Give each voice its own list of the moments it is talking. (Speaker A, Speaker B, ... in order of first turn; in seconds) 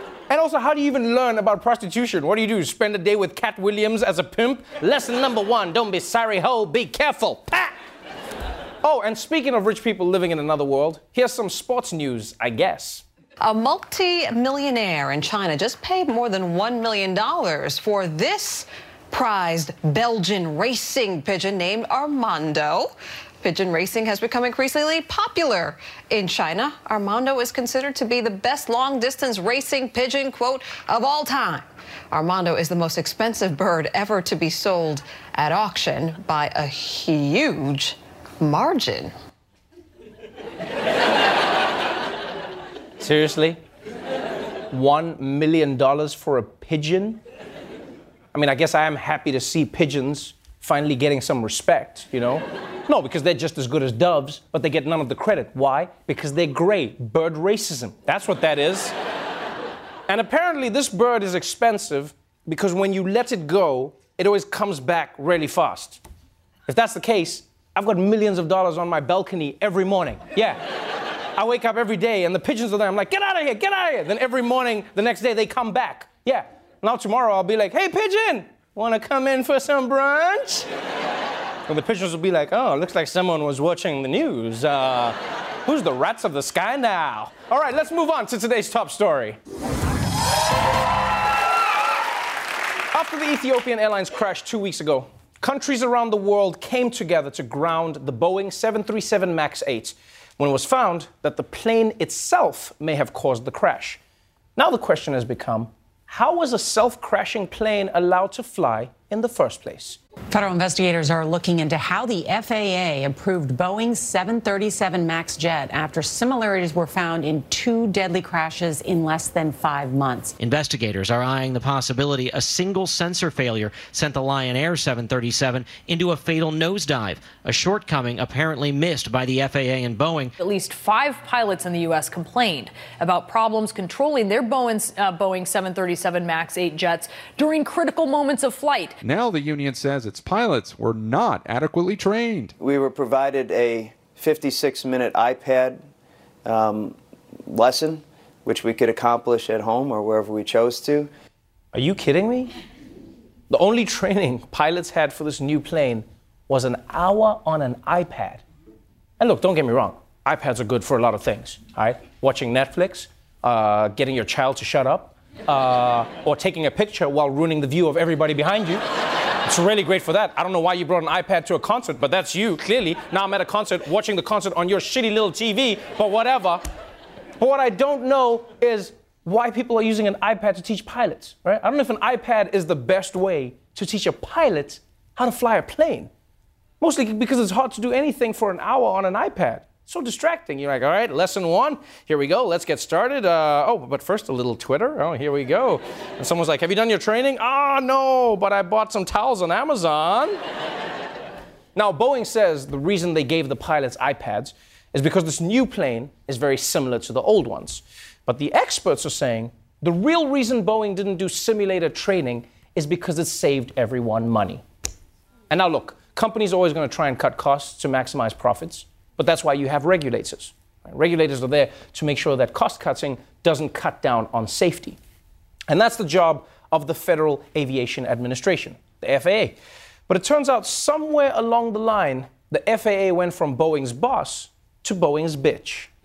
Speaker A: 0.3-7.7, 8.8-13.0, 43.0-43.6, 44.7-47.2, 48.3-58.9, 60.1-66.0, 66.7-70.6, 71.3-80.7, 81.7-89.4, 92.9-104.0, 104.5-110.0, 151.7-152.5, 153.5-158.4, 159.2-168.8, 169.4-176.6, 177.4-186.1, 186.8-200.4, 201.7-214.6, 215.5-225.0, 225.7-229.6, 230.1-235.9
Speaker B: 13.4-39.1
Speaker C: 110.3-120.3
Speaker D: 120.4-130.3
Speaker E: 130.4-139.0
Speaker F: 139.0-142.5
Speaker G: 142.6-145.8, 146.4-151.1